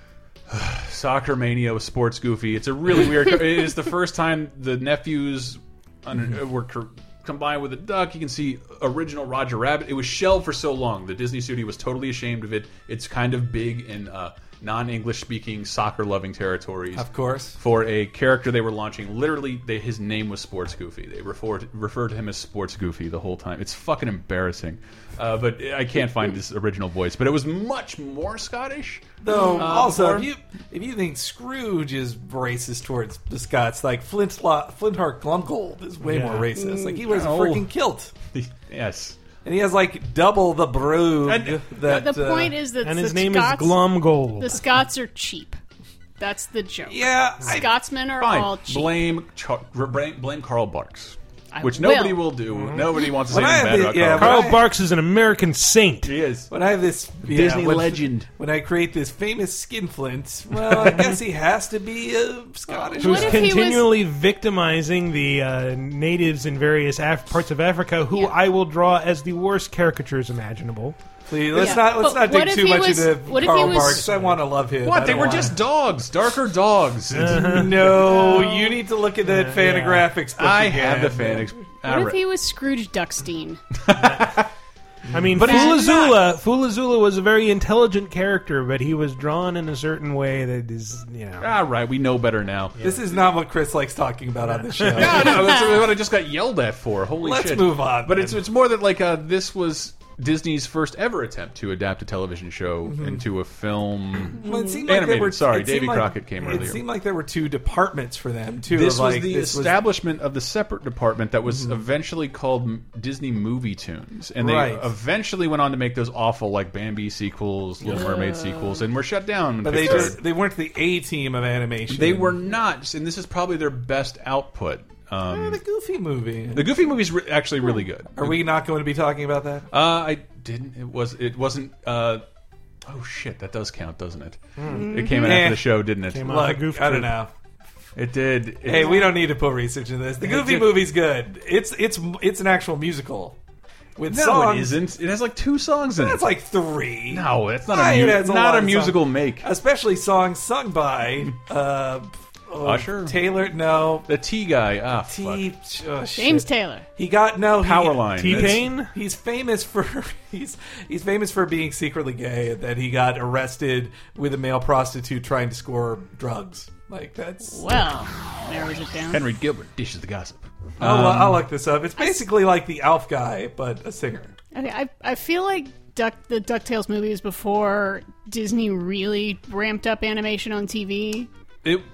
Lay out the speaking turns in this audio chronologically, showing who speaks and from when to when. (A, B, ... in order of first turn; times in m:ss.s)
0:00.5-0:30.3 A
0:16.9-0:17.6 B
0:29.2-0:38.1 B
0:29.3-0:29.8 C
0:36.0-0:36.5 D
0:36.6-0:37.0 C
0:37.1-0:37.7 A
0:38.3-0:39.2 A
0:39.4-0:42.6 B
0:41.2-0:42.1 A
0:41.9-0:43.8 C
0:42.8-0:44.7 D
0:44.4-0:45.6 C
0:46.2-0:48.9 C
0:46.9-0:47.7 B
0:48.2-0:54.6 A
0:51.5-0:52.3 C
0:53.3-0:54.6 B
0:54.2-0:56.2 D
0:56.0-0:56.5 A
0:56.5-1:03.5 B
0:57.2-0:58.3 A
1:00.7-1:01.1 A
1:02.7-1:03.9 C
1:03.0-1:11.0 D
1:11.3-1:15.6 B
1:11.6-1:14.0 C
1:14.1-1:14.4 D
1:14.8-1:17.9 A
1:17.1-1:17.9 D
1:17.3-1:21.5 B
1:18.0-1:18.8 C
1:19.2-1:20.1 D
1:20.4-1:22.2 A
1:21.9-1:23.6 C
1:23.8-1:24.5 A
1:24.0-1:24.4 D
1:25.1-1:26.1 B
1:25.1-1:31.5 D
1:25.4-1:26.0 C
1:25.4-1:25.7 A
1:31.4-1:32.8 A
1:32.8-1:35.4 B
1:34.5-1:35.1 D
1:34.9-1:46.8 A
1:37.2-1:38.4 B
1:42.8-1:43.2 B
1:44.4-1:44.9 C
1:44.4-1:49.8 B
1:48.7-2:00.2 A
1:51.5-1:51.8 B
1:54.4-1:54.9 B
1:57.8-1:58.8 C
1:59.6-2:02.4 B
2:01.9-2:05.6 A
2:05.3-2:06.7 B
2:06.5-2:08.4 A
2:08.2-2:09.7 B
2:09.7-2:12.2 A
2:12.9-2:16.4 A
2:14.6-2:14.9 D
2:14.7-2:15.4 C
2:15.2-2:17.3 B
2:16.1-2:17.2 D
2:18.0-2:19.1 A
2:18.7-2:23.4 B
2:18.8-2:19.1 C
2:20.2-2:20.7 A
2:24.0-2:24.8 B
2:24.1-2:26.3 A
2:26.0-2:34.1 B
2:27.1-2:29.5 A
2:32.6-2:33.2 A
2:34.1-2:35.5 A
2:35.1-2:47.7 B
2:36.2-2:36.9 C
2:37.6-2:38.7 A
2:38.2-2:38.9 D
2:47.5-2:49.3 C
2:49.1-2:51.4 A
2:50.8-2:54.3 B
2:52.0-2:52.2 C
2:54.5-3:01.3 C